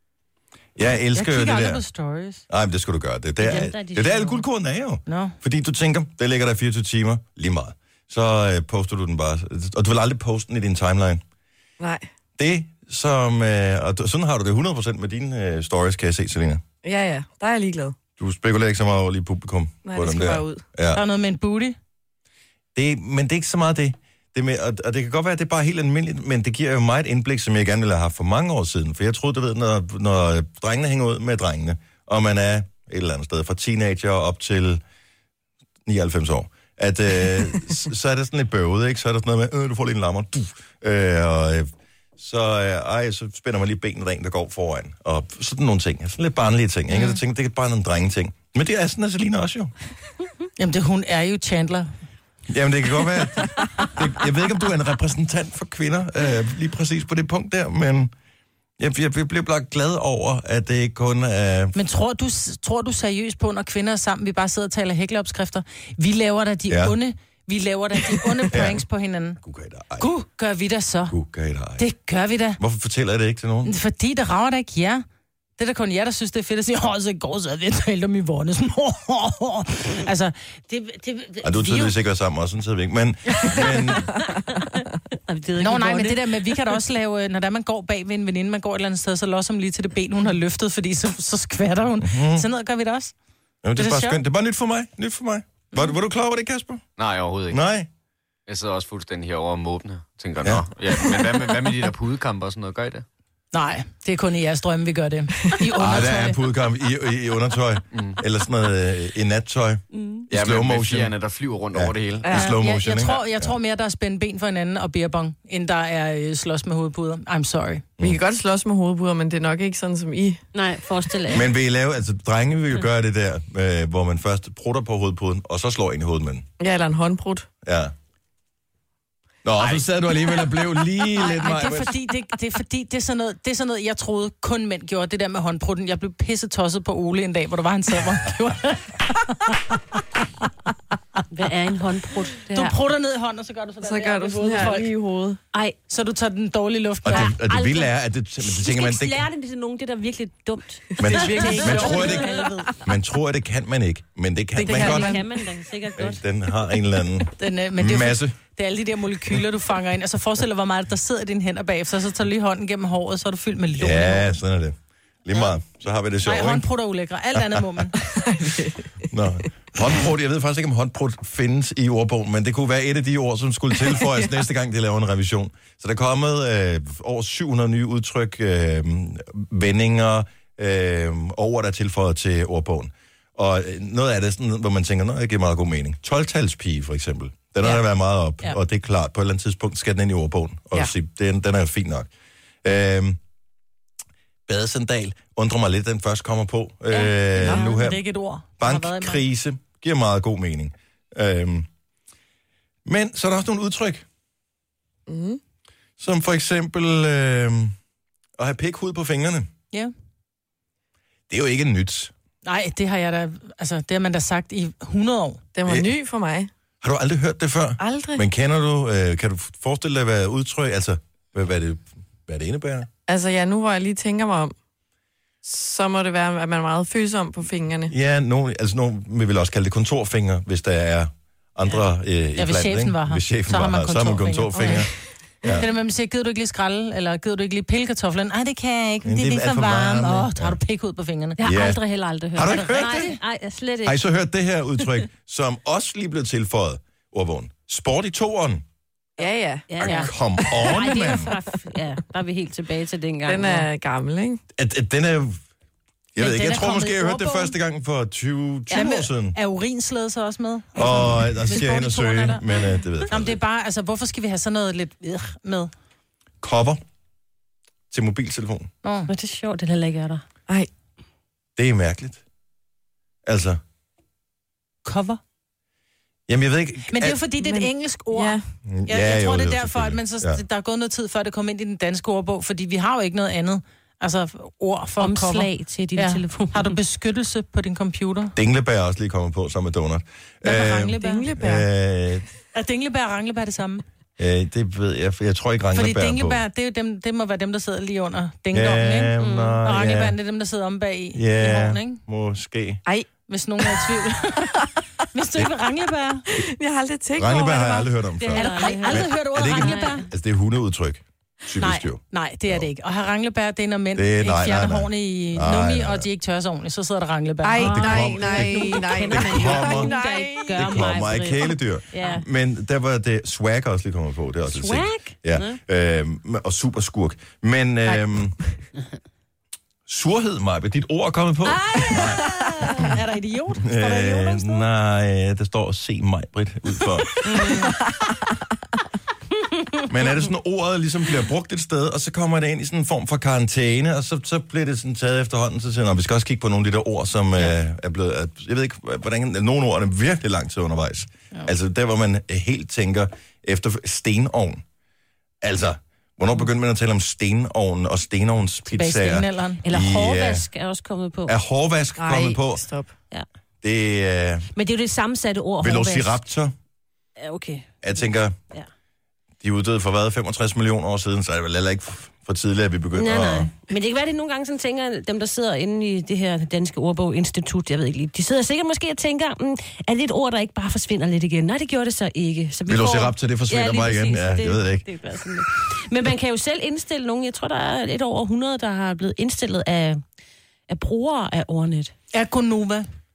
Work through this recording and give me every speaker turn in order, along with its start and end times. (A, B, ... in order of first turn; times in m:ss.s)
0:00.8-0:01.8 A
0:01.1-0:02.4 B
0:02.5-0:11.2 A
0:03.4-0:04.4 C
0:05.1-0:05.4 B
0:11.8-0:12.1 D
0:12.4-0:16.6 A
0:16.8-0:18.0 D
0:18.2-0:21.0 A
0:19.8-0:20.6 D
0:20.9-0:21.8 B
0:22.7-0:34.8 A
0:35.8-0:49.7 A
0:50.6-0:51.9 B
0:52.5-0:58.1 A
0:58.8-1:01.8 A
1:01.7-1:09.4 B
1:06.7-1:07.0 A
1:08.4-1:08.8 A
1:09.4-1:10.1 A
1:10.0-1:11.1 B
1:11.1-1:11.9 A
1:11.8-1:12.6 B
1:12.6-1:13.7 A
1:13.6-1:15.0 B
1:15.6-1:21.9 B
1:21.4-1:24.2 A
1:24.8-1:26.5 C
1:25.6-1:33.1 B
1:32.0-1:32.4 A
1:33.6-1:36.8 A
1:33.8-1:34.2 B
1:37.0-1:37.6 E
1:37.5-1:37.9 A
1:38.5-1:43.0 E
1:40.4-1:40.7 A
1:43.5-1:46.4 B
1:45.8-1:51.2 A
1:49.9-1:50.2 C
1:50.3-1:52.3 E
1:51.7-1:53.5 A
1:52.2-1:52.5 D
1:52.3-1:57.8 B
1:58.0-2:00.4 D
2:00.5-2:01.5 C
2:01.3-2:06.4 A
2:06.6-2:07.5 D
2:07.6-2:07.9 A
2:09.4-2:11.9 A
2:11.2-2:19.7 B
2:21.3-2:22.7 C
2:22.5-2:24.9 B
2:23.8-2:25.4 D
2:25.9-2:27.3 B
2:27.0-2:29.2 A
2:27.1-2:32.4 C
2:31.0-2:35.2 A
2:31.0-2:31.7 D
2:31.1-2:32.7 B
2:34.6-2:35.2 D
2:34.6-2:36.2 C
2:34.8-2:35.1 B
2:36.0-2:38.4 A
2:37.4-2:44.3 B
2:43.8-2:46.6 A
2:46.2-2:48.0 B
2:47.3-2:47.6 A
2:48.1-2:48.9 D
2:49.1-3:12.1 A
3:12.6-3:13.2 A
3:14.5-3:18.0 A
3:16.9-3:19.2 B
3:17.4-3:17.8 D
3:18.6-3:21.7 A
3:22.8-3:24.0 A
3:25.1-3:25.4 D
3:26.0-3:27.7 A
3:28.4-3:29.5 A
3:31.3-3:32.1 A
3:32.4-3:35.4 B
3:35.5-3:36.5 D
3:35.6-3:35.9 A
3:36.8-3:42.9 A
3:37.8-3:38.2 D
3:43.1-3:44.5 D
3:45.4-3:47.9 D
3:47.9-3:55.7 A
3:52.4-3:54.8 B
3:54.6-3:54.8 D
3:55.4-4:01.4 B
3:59.0-4:00.6 A
4:01.4-4:04.0 C
4:01.4-4:01.8 A
4:02.3-4:03.1 A
4:02.7-4:03.2 B
4:03.8-4:08.6 A
4:09.2-4:09.6 D
4:09.7-4:13.7 C
4:09.8-4:11.3 A
4:09.8-4:10.1 B
4:13.2-4:14.4 D
4:14.5-4:15.4 A
4:16.1-4:19.4 A
4:16.2-4:17.5 B
4:18.7-4:22.4 B
4:20.8-4:23.4 A
4:23.1-4:25.7 B
4:26.4-4:26.8 A
4:27.9-4:28.7 A
4:28.8-4:29.1 B
4:29.1-4:30.2 C
4:31.6-4:32.2 A
4:33.2-4:33.6 A
4:34.8-4:35.2 B
4:36.3-4:37.2 A
4:36.9-4:48.3 B
4:37.4-4:38.4 D
4:38.6-4:40.4 A
4:45.0-4:46.7 C
4:48.3-4:52.2 A
4:50.4-4:51.3 B
4:51.0-4:51.7 D
4:52.5-4:53.8 B
4:54.2-4:56.4 A
4:55.7-5:02.0 B
4:58.5-5:00.2 A
4:59.2-4:59.6 C
5:01.1-5:02.8 A
5:03.3-5:06.2 B
5:06.3-5:07.9 D
5:07.1-5:12.7 A
5:08.2-5:10.0 C
5:08.4-5:10.0 B
5:11.6-5:17.8 B
5:14.0-5:16.0 A
5:17.4-5:20.9 D
5:17.6-5:22.2 C
5:17.6-5:19.9 A
5:20.5-5:28.4 A
5:24.5-5:25.6 C
5:29.9-5:32.3 A
5:31.5-5:34.6 B
5:33.6-5:37.6 A
5:39.9-5:54.6 A
5:55.4-6:00.5 A
5:58.7-5:59.6 B
5:59.6-6:01.3 C
6:01.3-6:02.6 A
6:02.0-6:02.9 D
6:03.6-6:04.5 A
6:04.5-6:06.2 C
6:05.6-6:06.5 A
6:07.2-6:07.9 C
6:07.8-6:08.4 A
6:09.4-6:13.5 A
6:12.9-6:30.0 C
6:22.7-6:24.9 A
6:30.7-6:31.9 C
6:32.1-6:32.8 B